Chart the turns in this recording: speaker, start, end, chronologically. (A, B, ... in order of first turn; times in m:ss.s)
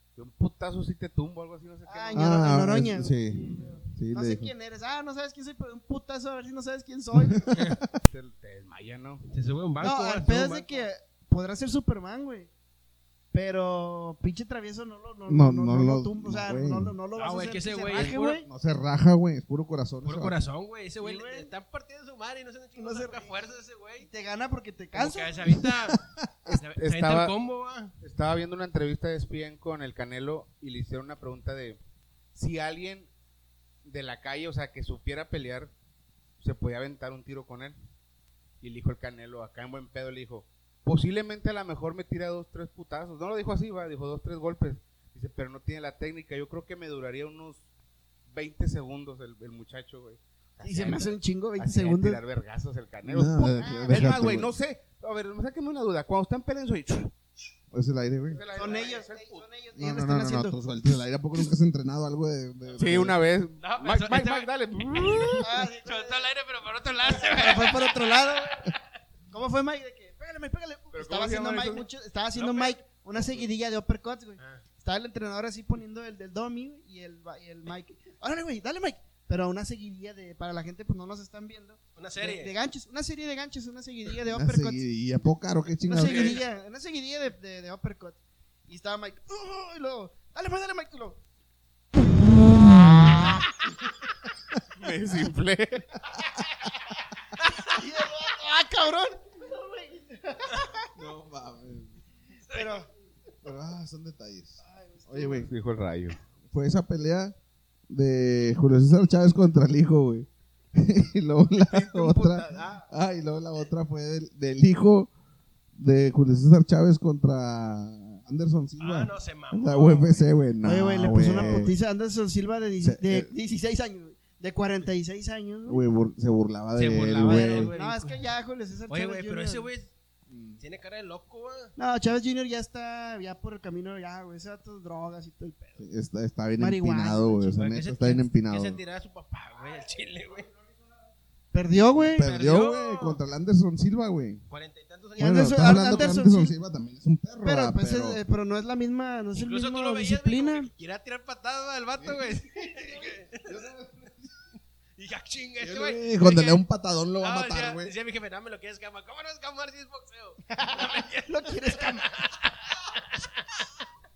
0:00.2-0:02.4 A
0:01.9-0:07.5 B
0:02.1-0:04.5 C
0:07.2-0:08.0 C
0:08.1-0:09.3 A
0:09.3-0:10.9 D
0:09.8-0:12.5 B
0:13.3-0:18.5 B
0:15.3-0:16.9 C
0:17.2-0:18.4 D
0:18.0-0:20.4 C
0:20.0-0:24.1 D
0:21.0-0:21.5 B
0:22.8-0:23.4 B
0:24.0-0:25.5 B
0:25.0-0:27.9 D
0:25.4-0:26.6 C
0:26.8-0:27.3 A
0:28.0-0:31.8 A
0:32.4-0:33.1 A
0:33.8-0:35.7 A
0:36.4-0:37.8 A
0:38.6-0:47.6 A
0:48.3-0:57.1 A
0:50.6-0:52.2 B
0:53.0-0:54.5 C
0:53.6-0:54.2 B
0:57.7-0:58.4 C
0:58.3-0:59.4 A
0:58.5-1:00.6 B
0:59.8-1:03.2 C
1:02.8-1:05.5 A
1:03.6-1:08.8 D
1:05.4-1:06.3 B
1:07.0-1:08.7 B
1:09.3-1:24.8 B
1:10.9-1:11.9 A
1:12.4-1:12.8 D
1:22.0-1:22.5 D
1:24.3-1:26.4 C
1:25.8-1:31.2 B
1:26.1-1:26.4 A
1:32.6-1:33.4 B
1:34.0-1:34.6 C
1:34.8-1:35.9 A
1:36.1-1:36.4 C
1:37.6-1:40.9 B
1:41.0-1:42.0 C
1:42.5-1:42.8 D
1:42.5-1:42.9 B
1:43.4-1:45.5 C
1:44.6-1:45.5 B
1:45.5-1:46.2 A
1:46.5-1:47.3 C
1:47.9-1:55.1 C
1:51.8-1:52.8 A
1:55.8-2:01.8 C
1:58.8-2:00.4 D
2:00.6-2:05.8 B
2:01.3-2:01.7 D
2:02.8-2:03.3 C
2:05.7-2:07.7 C
2:06.7-2:08.3 D
2:07.2-2:09.7 B
2:08.9-2:09.9 D
2:10.3-2:10.6 C
2:10.6-2:11.7 D
2:11.8-2:15.8 B
2:15.8-2:18.8 C
2:16.6-2:17.6 B
2:17.6-2:20.5 D
2:21.5-2:22.3 B
2:22.2-2:24.4 C
2:22.2-2:23.2 D
2:24.5-2:26.0 D
2:25.2-2:26.6 B
2:25.2-2:28.2 C
2:27.4-2:30.7 B
2:29.4-2:33.6 D
2:32.0-2:34.4 C
2:35.0-2:36.6 D
2:35.6-2:37.9 C
2:37.2-2:43.7 D
2:41.2-2:42.1 B